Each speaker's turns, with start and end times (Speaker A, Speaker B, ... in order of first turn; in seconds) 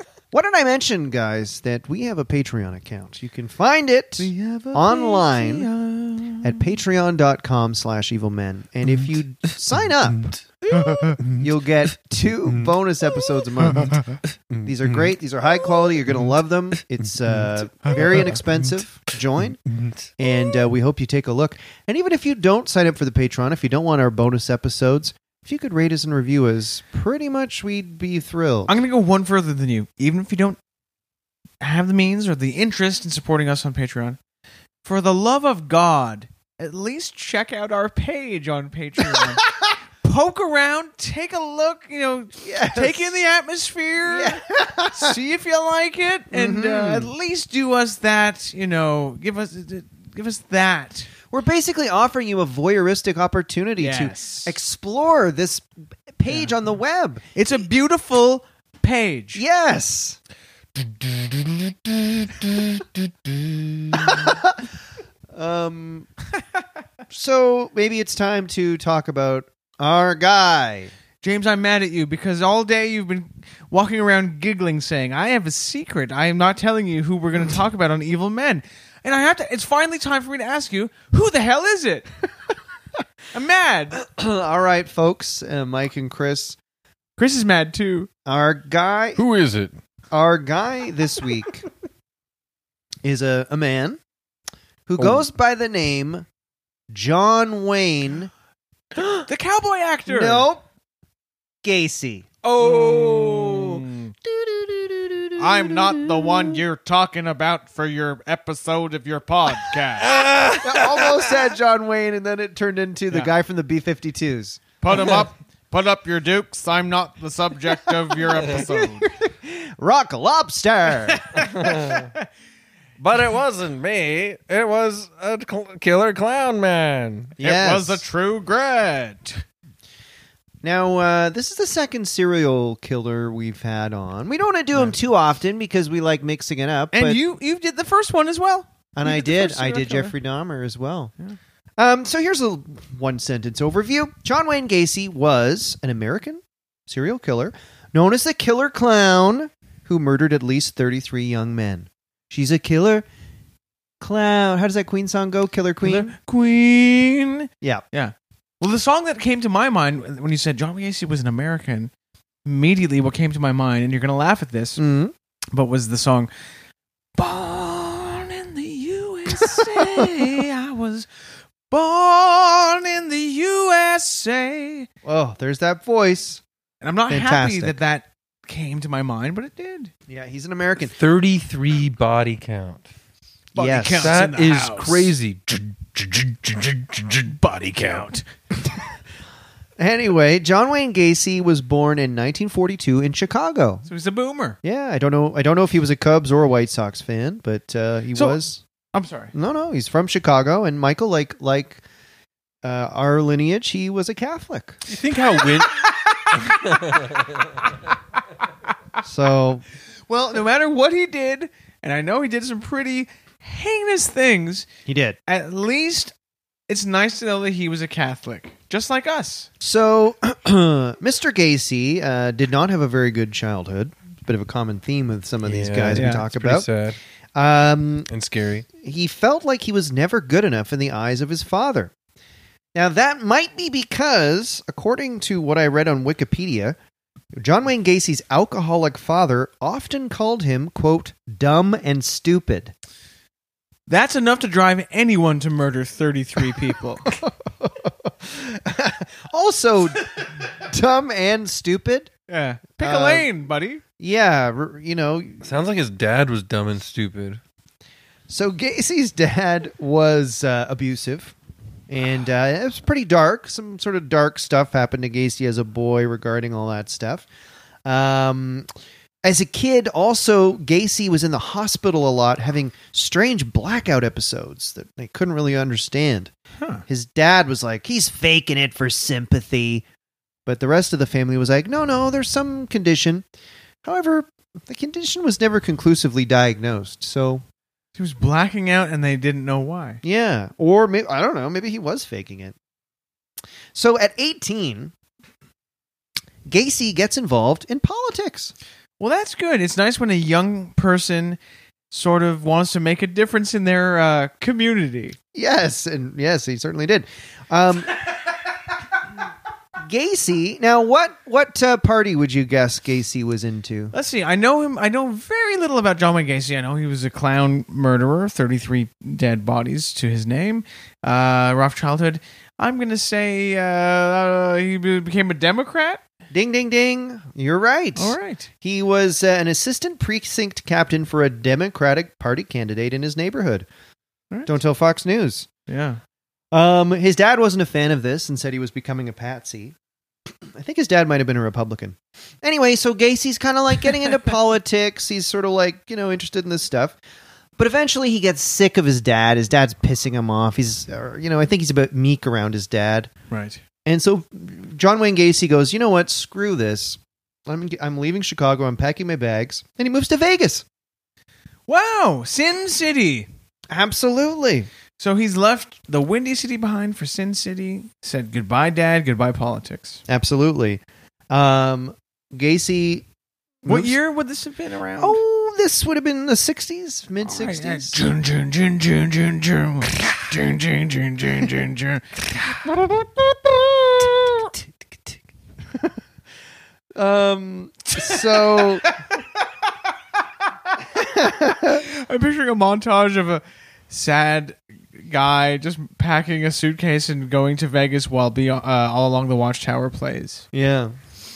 Speaker A: 0.3-5.7, 6.4-19.6, 20.2-28.7, 42.4-43.1, 44.0-45.1, 46.3-47.1, 51.3-57.2, 59.3-60.2, 63.9-64.6, 65.3-66.1, 67.1-70.9, 84.0-86.6, 88.2-89.2, 90.1-91.7, 93.0-94.0, 94.9-96.3, 96.9-98.3, 100.1-100.6, 101.6-102.3, 104.3-106.3, 110.6-114.6, 118.4-121.3, 127.4-128.0, 130.6-137.2, 138.9-141.1, 141.8-153.1, 154.0-156.1, 164.8-165.1, 169.7-170.3, 175.0-176.4, 177.1-177.8, 180.1-180.9, 183.6-184.1, 189.8-193.8, 194.6-198.6, 199.3-201.8, 202.6-204.8, 209.0-209.6, 214.8-215.2, 219.6-226.7, 227.3-228.1, 228.8-231.9, 232.7-236.8, 237.4-242.7, 247.1-252.1, 252.8-253.3, 254.0-255.4, 258.3-261.3, 261.9-267.2, 267.8-268.7, 269.2-276.3, 276.9-279.8, 280.4-283.2, 283.8-287.4, 290.0-292.6, 293.7-294.9, 296.5-298.5, 305.3-308.1, 309.8-313.9, 326.3-333.7, 334.4-335.5, 336.5-339.7, 340.3-347.0, 347.6-353.1, 353.9-360.6, 363.7-364.7, 370.1-373.1, 373.6-373.9, 375.0-378.0, 386.9-388.9, 390.9-391.8, 400.5-400.9
Speaker B: 4.2-6.7, 28.7-30.6, 31.6-34.2, 34.8-51.1, 53.8-54.6, 57.3-59.4, 71.2-82.1, 83.3-84.0, 87.2-88.1, 99.2-100.5, 102.6-104.1, 105.3-110.1, 114.8-119.1, 121.2-122.0, 127.4-129.4, 136.9-140.1, 155.8-161.9, 162.4-164.8, 165.5-166.3, 167.2-171.1, 171.7-174.9, 176.8-179.9, 183.5-185.1, 187.3-188.2, 193.8-194.6, 198.1-198.4, 198.9-199.3, 205.9-206.3, 210.1-214.7, 215.3-216.1, 216.7-219.5, 225.9-226.2, 243.9-247.1, 252.3-253.8, 287.9-290.0, 299.0-301.4, 301.9-305.1, 313.9-326.0, 327.9-328.5, 335.7-336.0, 353.3-353.6, 361.7-363.3, 365.0-370.0, 373.6-375.2, 377.2-382.3, 388.0-388.9, 391.6-400.4
Speaker C: 9.0-9.5, 10.1-11.5, 13.7-15.1, 17.9-18.3, 19.7-20.1, 60.8-64.3, 89.2-89.7, 95.0-95.2, 102.4-103.8, 110.0-111.4, 114.9-115.2, 121.3-122.1, 123.0-127.3, 180.9-182.9, 183.9-188.0, 204.9-205.8, 206.3-207.4, 225.4-227.0, 228.1-228.7, 255.4-257.4